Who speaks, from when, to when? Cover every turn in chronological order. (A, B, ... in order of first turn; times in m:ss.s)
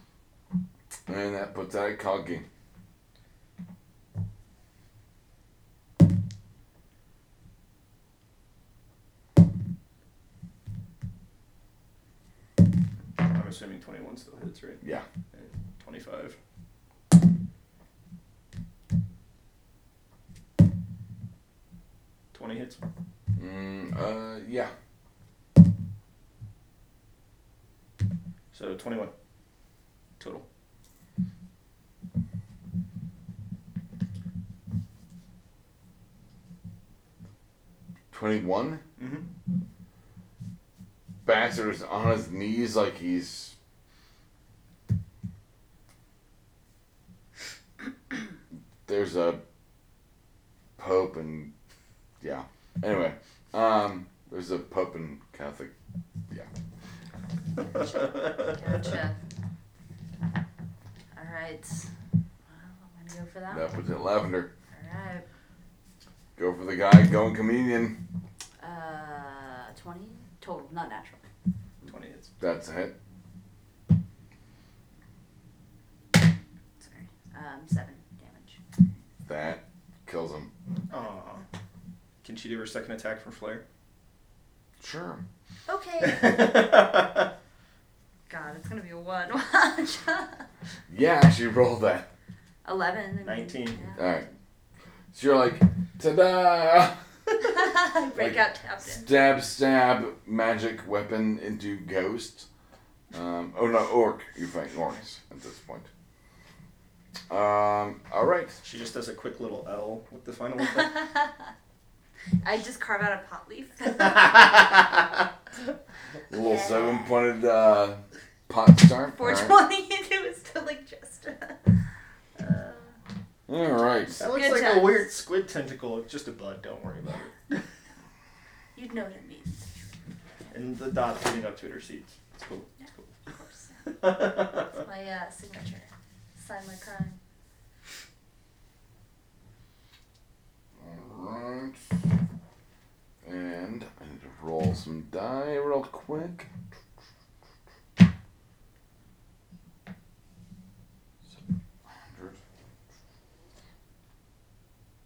0:01.1-0:02.4 A
0:13.2-0:14.8 B
0:15.3-0:16.4 B
0:22.3-0:22.8 B
0:23.4-0:24.7 A
0:28.5-0:29.1 B
0:30.2-0:30.4 B
0:38.1-0:38.8 A
0:39.0-0:39.3 B
0:41.2-0:43.6 A
0:48.9-0:49.4 A
0:50.8-0:51.5 A
0:52.2-0:55.7 A
0:57.6-0:59.2 C
1:01.1-1:01.9 C
1:02.5-1:03.8 C
1:03.5-1:04.5 A
1:04.7-1:05.2 C
1:06.4-1:08.0 A
1:08.6-1:11.2 C
1:11.9-1:12.3 B
1:12.4-1:12.9 A
1:16.8-1:18.6 C
1:19.2-1:20.5 A
1:20.9-1:21.4 B
1:22.2-1:23.6 B
1:24.8-1:25.2 A
1:25.7-1:26.4 C
1:26.0-1:27.3 B
1:28.3-1:30.4 C
1:30.9-1:32.1 A
1:32.6-1:34.4 C
1:33.2-1:33.8 B
1:34.0-1:34.2 A
1:35.1-1:42.5 A
1:37.4-1:39.1 C
1:43.1-1:45.9 A
1:47.3-1:48.6 A
1:48.6-1:51.0 B
1:52.4-1:54.5 C
1:56.3-1:59.6 A
1:56.4-1:57.0 C
1:59.1-2:01.8 C
2:02.4-2:03.0 C
2:03.5-2:04.2 A
2:04.2-2:07.6 B
2:04.2-2:05.1 C
2:08.8-2:09.8 C
2:10.5-2:13.1 B
2:12.8-2:14.1 C
2:14.0-2:14.6 B
2:14.6-2:17.2 C
2:20.8-2:21.9 A
2:23.2-2:26.5 A
2:31.9-2:32.4 A